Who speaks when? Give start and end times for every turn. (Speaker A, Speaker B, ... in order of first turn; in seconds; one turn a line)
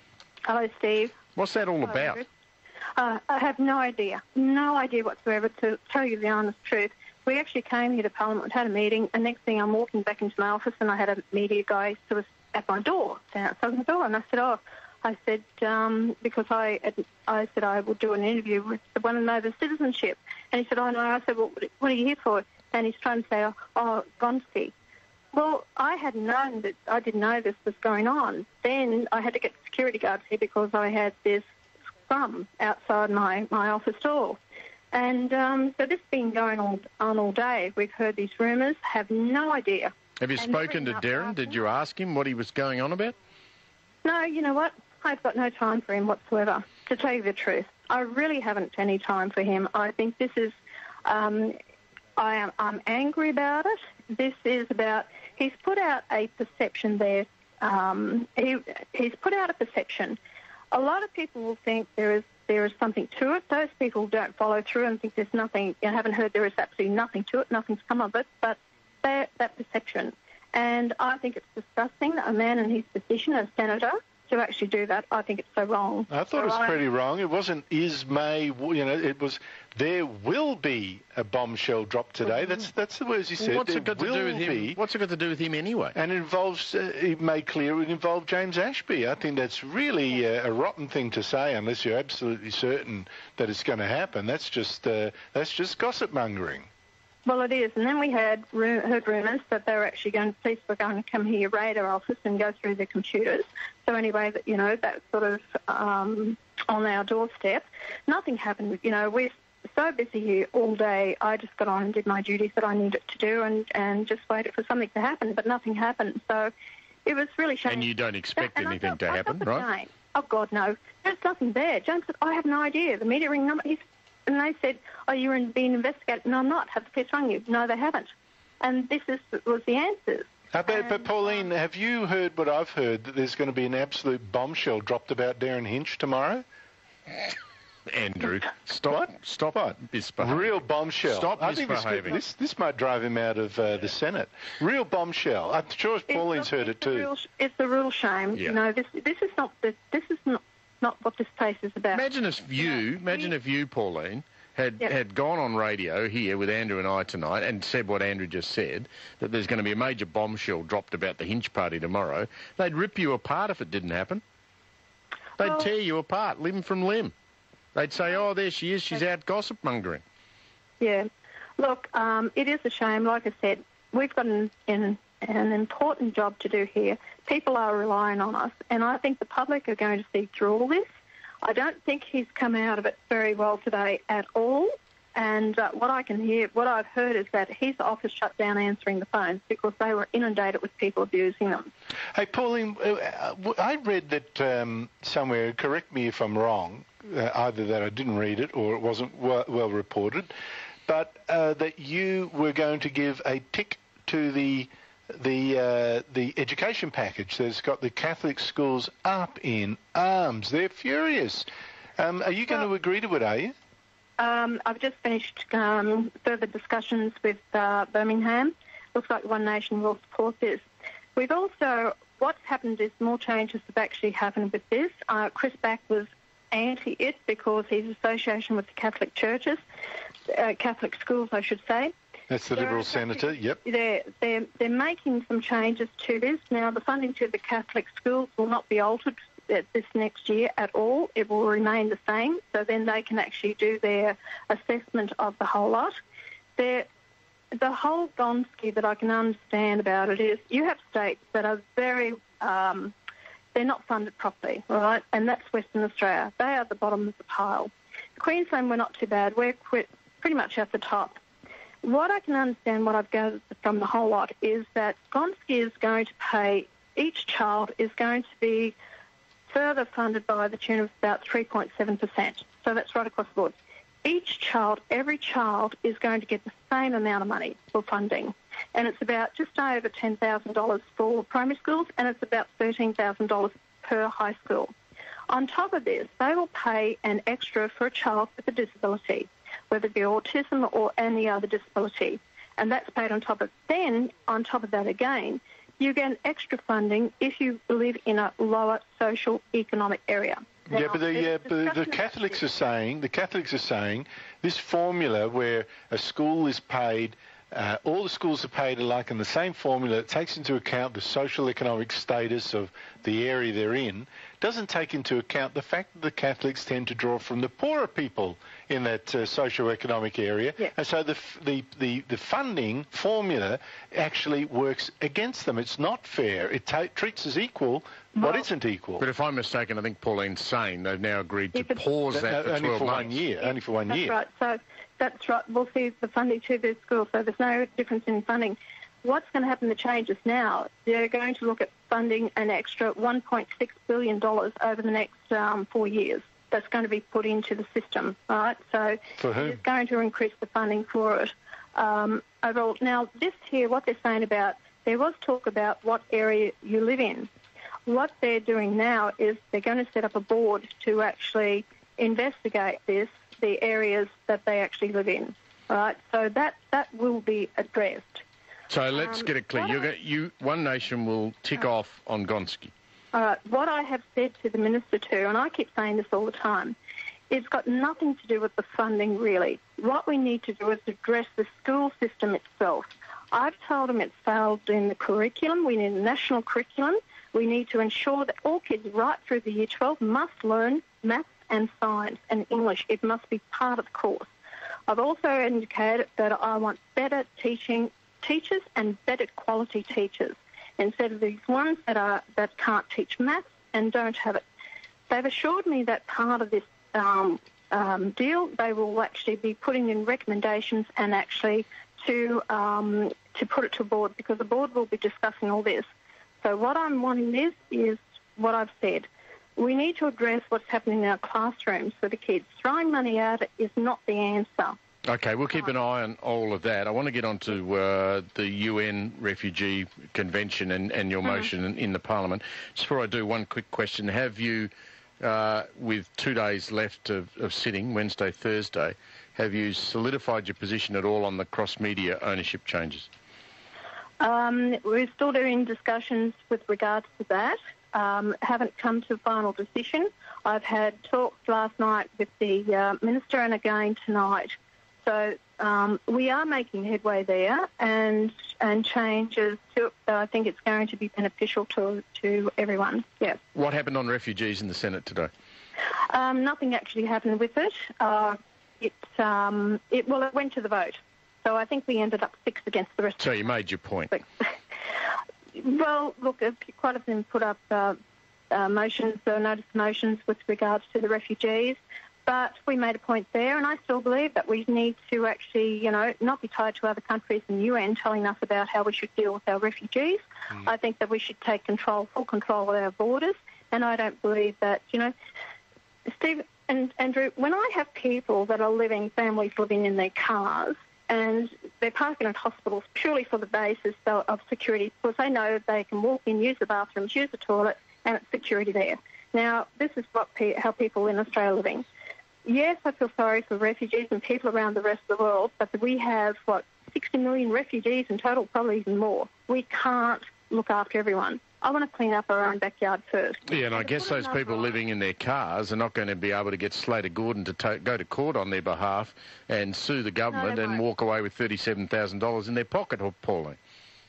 Speaker A: 0.5-1.2
Speaker B: 1.4-2.2
Speaker A: 1.9-2.3
Speaker A: 3.0-24.7
Speaker A: 25.3-31.4
Speaker A: 32.1-34.4
Speaker A: 34.9-41.6
Speaker B: 40.2-43.1
Speaker A: 44.0-51.6
Speaker A: 52.2-60.2
Speaker A: 60.7-76.8
Speaker C: 76.1-84.8
Speaker B: 83.4-86.0
Speaker C: 86.0-96.7
Speaker A: 97.2-116.5
Speaker A: 117.1-131.1
Speaker B: 117.7-119.7
Speaker C: 130.5-136.4
Speaker B: 137.9-142.2
Speaker C: 138.9-147.1
Speaker A: 146.1-153.3
Speaker B: 151.9-164.2
Speaker B: 165.4-167.1
Speaker B: 167.8-170.0
Speaker A: 170.8-171.1
Speaker A: 171.6-180.9
Speaker A: 181.4-191.7
Speaker C: 192.1-200.3
Speaker C: 200.9-211.5
Speaker C: 212.0-213.5
Speaker A: 214.2-220.6
Speaker A: 221.2-229.6
Speaker A: 230.3-231.9
Speaker C: 232.3-233.6
Speaker A: 232.5-246.0
Speaker A: 246.6-246.9
Speaker A: 247.5-252.9
Speaker A: 253.6-261.2
Speaker A: 261.8-268.8
Speaker A: 269.5-284.7
Speaker A: 285.3-302.4
Speaker C: 300.7-329.1
Speaker A: 328.2-328.5
Speaker B: 329.0-333.2
Speaker A: 331.6-331.8
Speaker C: 332.1-334.1
Speaker A: 333.4-357.3
Speaker C: 349.2-349.6
Speaker A: 357.9-368.2
Speaker B: 368.7-372.7
Speaker A: 369.0-369.8
Speaker A: 373.1-376.8
Speaker A: 377.3-394.3
Speaker A: 394.9-404.4
Speaker A: 405.1-415.9
Speaker A: 416.4-424.8
Speaker B: 425.1-443.1
Speaker A: 444.2-463.4
Speaker B: 463.5-465.3
Speaker A: 466.1-473.4
Speaker B: 473.2-474.1
Speaker A: 474.1-474.5
Speaker A: 475.5-478.0
Speaker A: 478.5-495.1
Speaker A: 496.1-511.9
Speaker A: 512.5-524.7
Speaker B: 523.5-533.6
Speaker A: 530.3-530.8